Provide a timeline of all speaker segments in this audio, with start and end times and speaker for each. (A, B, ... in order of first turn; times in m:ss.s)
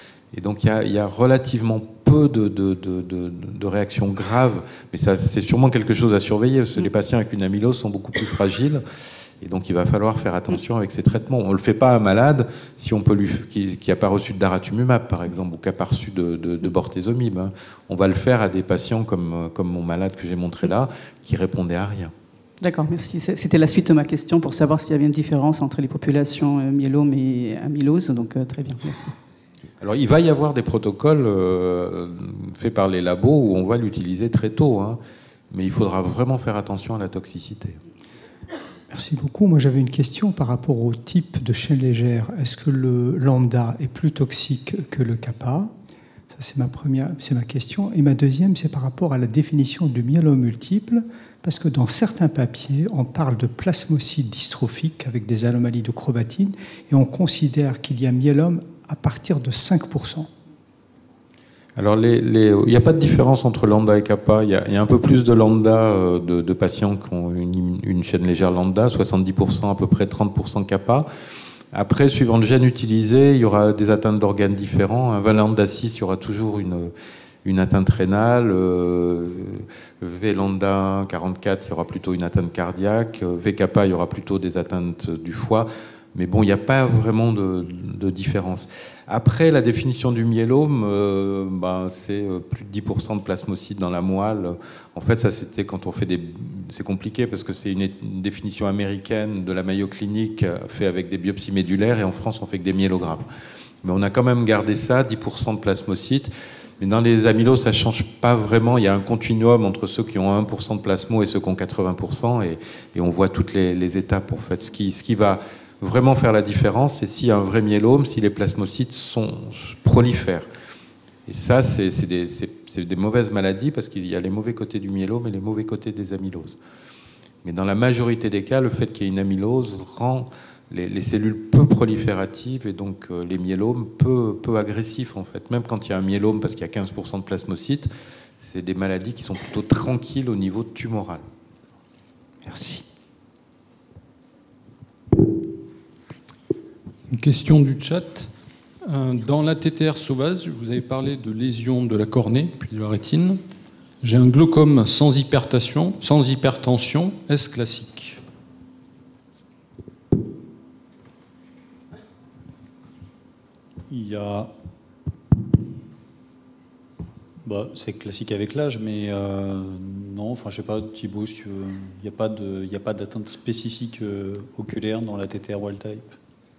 0:00.3-0:22.1 A
0:22.6-0:29.1 B
0:29.8-0:35.0 A
0:35.5-0:37.8 A
0:38.9-0:45.7 C
0:46.3-1:00.3 C
1:01.8-1:11.1 A
1:11.7-1:16.9 A
1:17.4-1:43.3 A
1:43.8-2:00.5 A
2:01.3-2:06.6 A
2:07.4-2:21.2 A
2:22.4-2:22.8 C
2:27.1-2:28.3 D
2:28.8-2:33.4 D
2:34.0-2:38.2 D
2:43.9-2:44.5 E
2:47.4-2:56.2 E